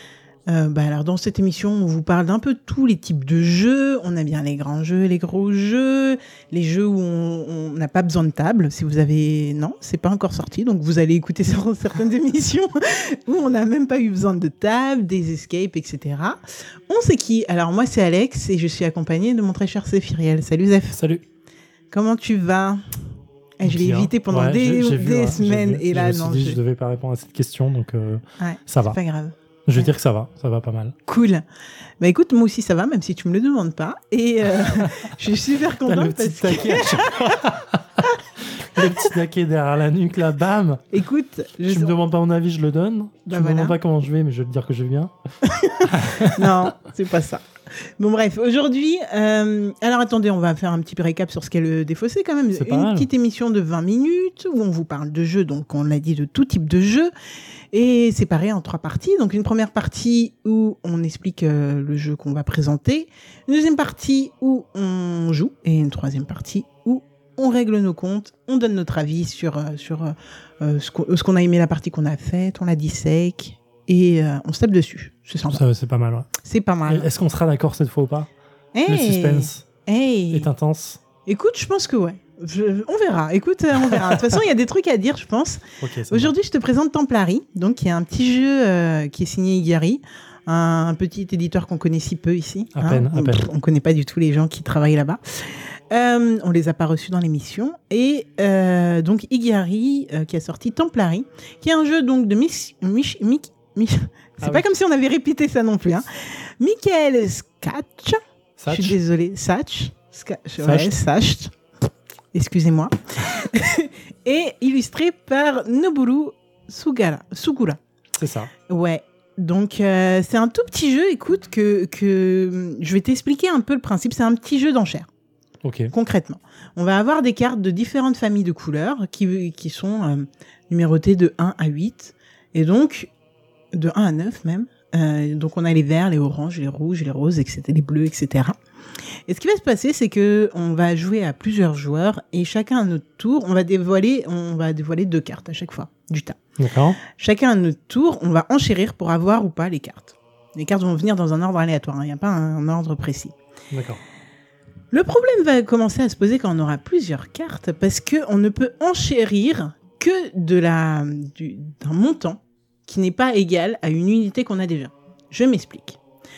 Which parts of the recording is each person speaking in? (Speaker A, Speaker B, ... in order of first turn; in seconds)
Speaker A: 0.5-21.0, 21.9-22.8, 23.6-26.6, 28.4-29.9, 31.1-31.4, 32.0-37.3, 40.9-42.0, 43.3-43.8, 45.4-47.4, 48.0-57.1, 57.7-75.6, 76.4-77.1, 78.7-80.5, 81.2-106.1, 106.6-111.5, 112.3-117.8, 118.7-125.1, 125.9-133.1, 133.7-138.6, 139.3-146.4, 147.1-153.3, 154.9-166.0
Speaker B: 20.9-21.2, 23.6-29.0, 29.7-30.9, 35.8-40.9, 41.7-45.1, 45.9-46.7, 52.5-53.1, 75.5-76.3, 76.9-78.3, 78.9-79.7, 80.3-81.0, 85.8-86.3, 92.8-93.5, 104.4-104.7, 108.6-109.0, 110.6-111.0, 118.2-118.5, 125.6-125.9, 146.6-147.0, 153.7-154.0